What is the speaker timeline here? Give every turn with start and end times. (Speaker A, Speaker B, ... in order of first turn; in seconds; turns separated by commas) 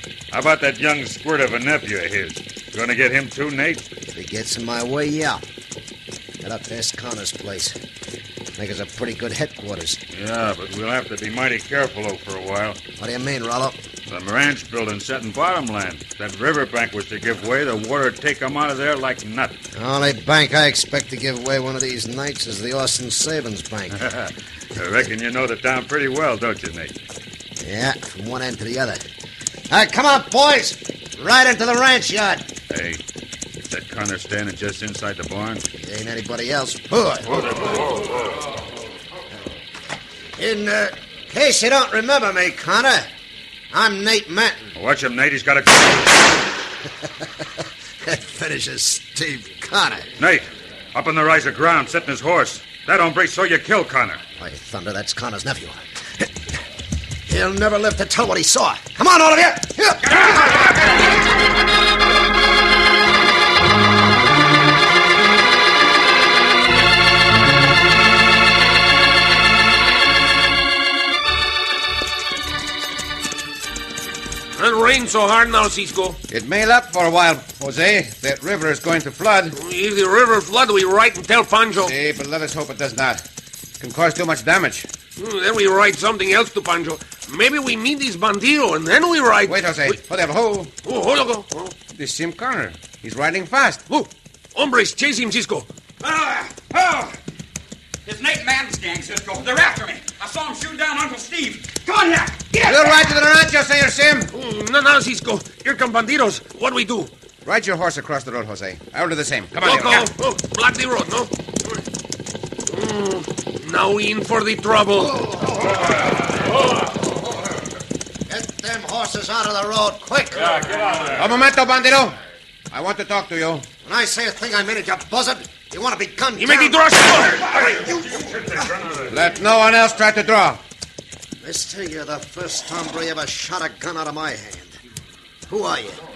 Speaker A: 0.3-3.8, Speaker B: 4.1-5.4, Speaker B: 6.4-7.8, Speaker B: 8.6-10.0, Speaker A: 10.1-12.8, Speaker B: 13.0-13.8, Speaker A: 14.1-19.6, Speaker B: 19.8-24.0, Speaker A: 24.0-26.9, Speaker B: 27.6-29.0, Speaker B: 29.7-32.5, Speaker A: 32.7-33.0, Speaker A: 33.6-35.6, Speaker B: 35.8-37.5, Speaker A: 37.4-37.9, Speaker B: 40.4-43.1, Speaker B: 43.7-44.7, Speaker A: 44.8-46.2, Speaker B: 48.0-50.1, Speaker A: 50.2-54.2, Speaker B: 54.4-55.8, Speaker B: 57.3-60.7, Speaker C: 74.5-76.2, Speaker D: 76.3-79.6, Speaker C: 79.5-81.9, Speaker D: 81.8-83.2, Speaker D: 83.8-84.9, Speaker C: 85.2-90.0, Speaker D: 89.5-90.7, Speaker C: 90.8-91.8, Speaker D: 91.9-93.8, Speaker C: 93.9-95.7, Speaker E: 96.0-97.2, Speaker E: 98.0-102.5, Speaker C: 102.5-102.9, Speaker D: 102.6-104.3, Speaker C: 104.3-107.1, Speaker D: 107.5-110.1, Speaker C: 109.6-111.3, Speaker C: 112.7-115.3, Speaker B: 118.3-120.6, Speaker A: 120.5-121.2, Speaker D: 121.2-122.2, Speaker D: 122.7-123.7, Speaker B: 123.8-127.0, Speaker C: 126.4-127.7, Speaker A: 128.6-129.1, Speaker D: 129.1-130.6, Speaker B: 131.4-134.8, Speaker B: 135.5-136.0